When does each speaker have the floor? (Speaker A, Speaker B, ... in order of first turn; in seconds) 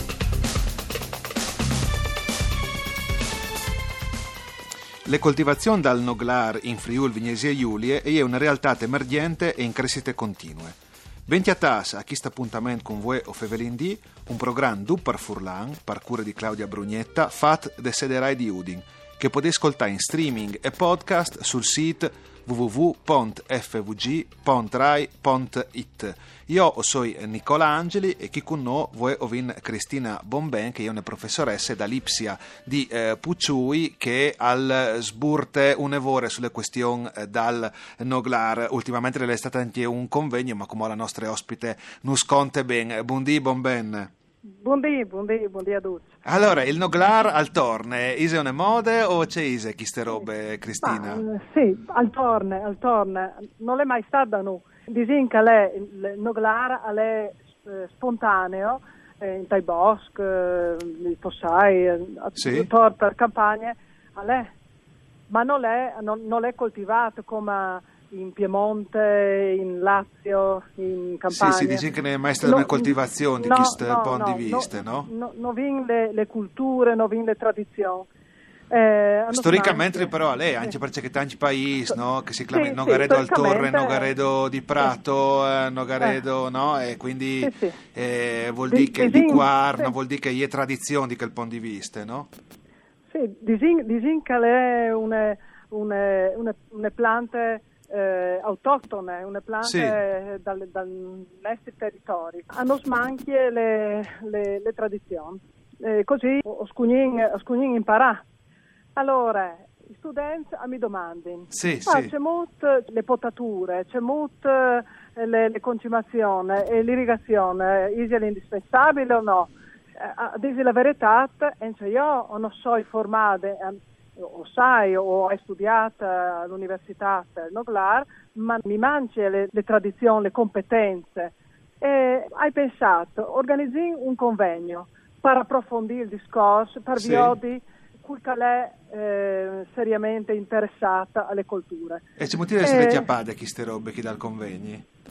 Speaker A: 5.0-44.1, 46.2-51.2, 62.4-62.7, 71.3-75.1, 79.3-92.3, 99.6-100.0, 111.5-112.1, 137.0-137.3, 142.2-144.8
Speaker B: 44.6-46.1, 50.8-64.5, 65.3-71.9, 72.4-78.1, 78.7-80.8, 82.5-84.2, 87.4-87.8, 88.7-90.0, 93.1-108.2, 109.0-142.0, 142.6-143.1